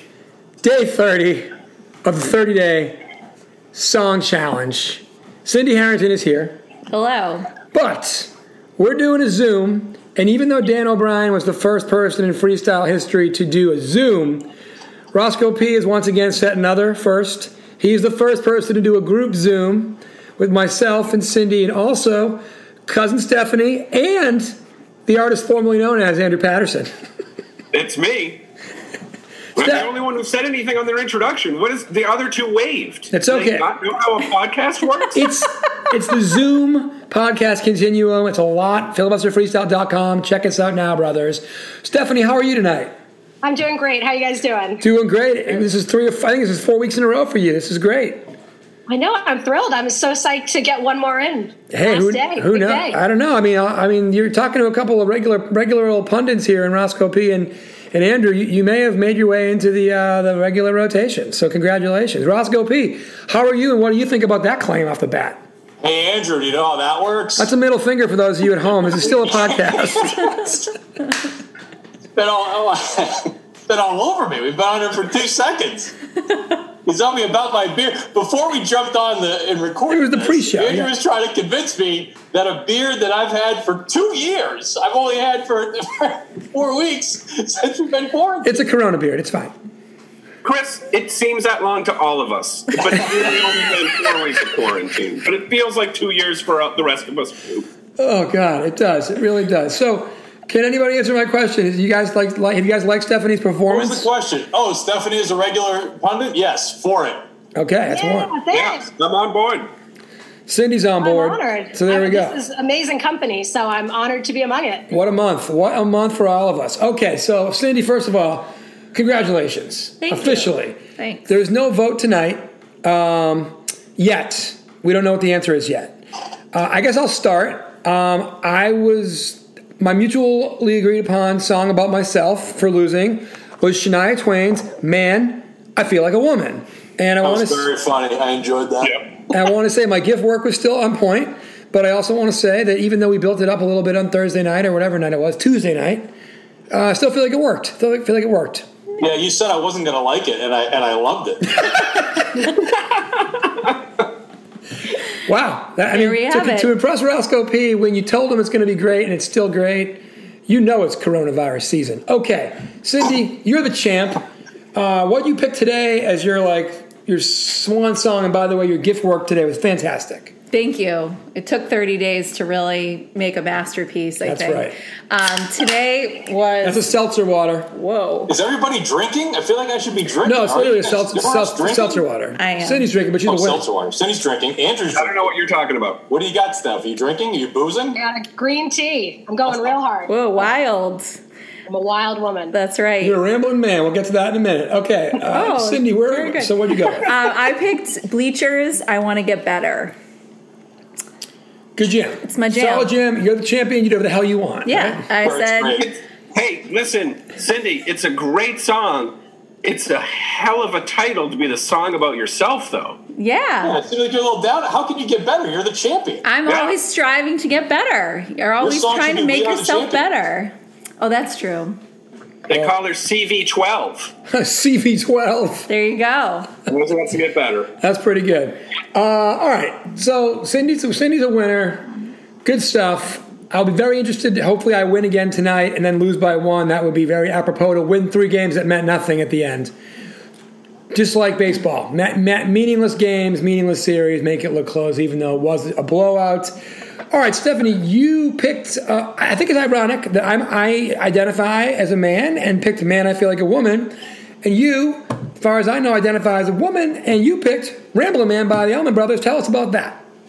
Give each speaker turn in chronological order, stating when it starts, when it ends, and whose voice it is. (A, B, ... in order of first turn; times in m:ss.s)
0:00.6-0:01.5 A
0:02.0-0:03.0 A
0:03.7-0:06.6 A
0:06.9-0:07.5 B
0:07.7-0:14.5 A
0:15.1-0:26.9 A
0:27.7-0:28.4 C
0:29.6-0:35.2 C
0:29.6-0:29.9 A
0:33.1-0:33.7 A
0:35.1-0:42.9 A
0:43.4-0:44.8 D
0:44.8-0:48.2 A
0:48.9-0:53.0 D
0:51.7-1:05.4 A
1:05.8-1:07.5 E
1:07.4-1:10.5 A
1:09.0-1:10.7 E
1:12.1-1:15.9 E
1:16.8-1:28.6 E
1:19.9-1:20.9 A
1:28.4-1:29.5 A
1:30.4-1:37.7 C
1:38.0-1:44.1 A
1:43.7-1:47.2 E
1:47.5-1:48.3 A
1:47.9-1:48.8 D
1:48.5-1:49.7 C
1:50.5-1:52.4 A
1:51.0-1:54.9 D
1:54.9-2:06.0 A
2:00.0-2:01.3 B
2:06.5-2:17.7 A
2:17.2-2:19.1 E
2:19.3-2:26.1 A
2:26.7-2:28.7 A
2:29.0-2:31.7 E
2:35.2-2:50.3 A
2:35.9-2:36.7 B
2:50.5-2:56.9 B
2:54.2-2:54.8 A
2:56.6-2:57.7 A
2:57.7-2:58.3 B
2:58.3-3:02.0 E
3:00.2-3:03.6 A
3:02.3-3:02.9 B
3:03.2-3:05.2 E
3:04.9-3:06.0 C
3:06.1-3:08.0 E
3:08.0-3:10.1 D
3:10.1-3:11.2 B
3:11.7-3:12.5 D
3:12.5-3:13.2 B
3:13.0-3:17.1 A
3:15.3-3:19.9 B
3:21.8-3:25.0 A
3:22.2-3:22.9 B
3:24.6-3:25.8 B
3:25.2-3:25.9 E
3:25.6-3:33.0 C
3:33.1-3:33.8 B
3:33.6-3:36.2 E
3:36.2-3:41.8 B
3:36.4-3:36.7 C
3:38.6-3:40.0 E
3:42.5-3:44.1 C
3:44.3-3:45.7 A
3:45.7-3:46.5 B
3:46.7-3:47.7 C
3:47.8-3:51.9 A
3:52.4-3:59.7 A
4:00.9-4:06.6 A
4:07.1-4:20.0 A